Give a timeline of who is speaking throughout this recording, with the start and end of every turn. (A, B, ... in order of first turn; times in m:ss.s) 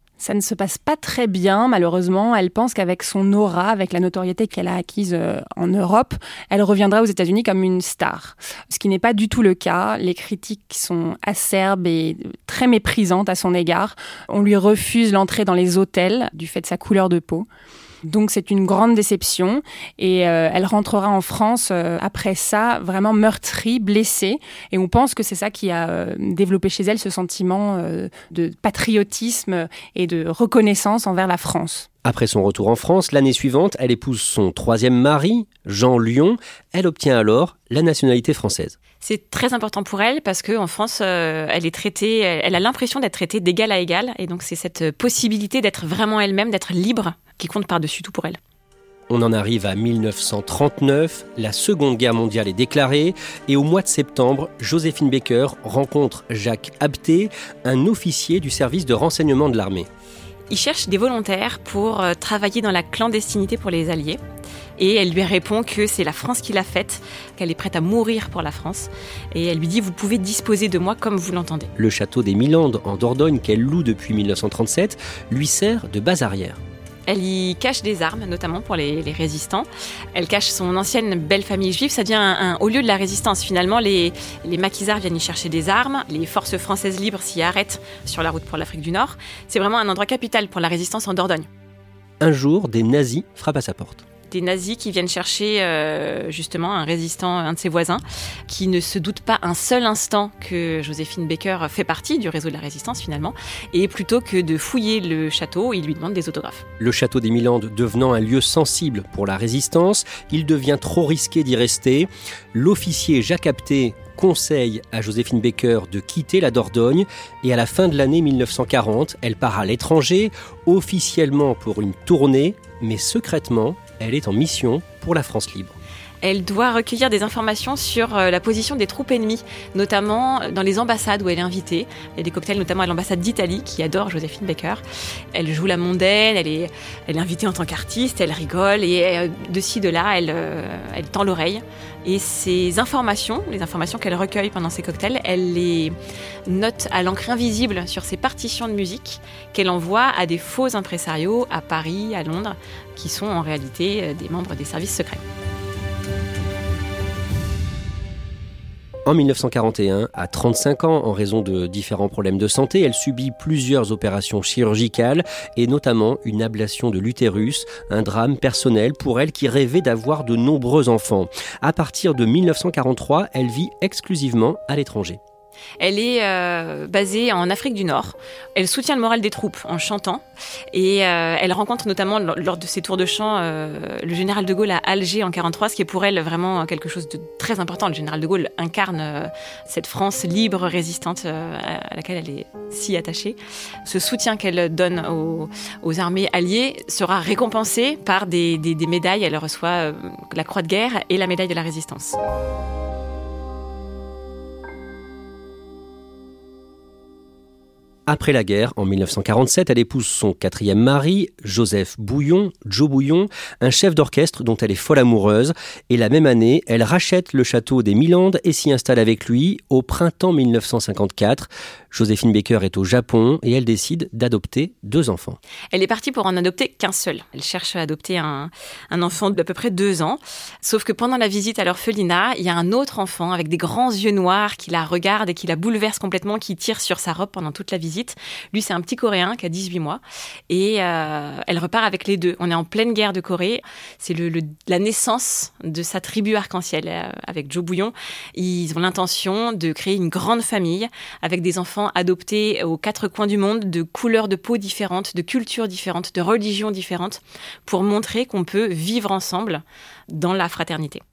0:00.2-0:17.5 A
0:18.1-0:31.9 A
0:32.0-0:38.8 B
0:39.0-0:48.4 C
0:49.1-0:59.9 B
1:00.5-1:04.2 C
1:04.8-1:11.7 C
1:11.8-1:16.6 B
1:17.1-1:31.5 C
1:32.2-1:34.0 B
1:34.3-1:46.6 C
1:46.8-2:05.8 B
2:06.2-2:14.8 C
2:15.3-2:25.9 C
2:26.5-2:35.2 C
2:39.1-2:55.2 B
2:55.8-3:22.2 C
3:28.1-3:45.4 B
3:45.7-4:21.0 C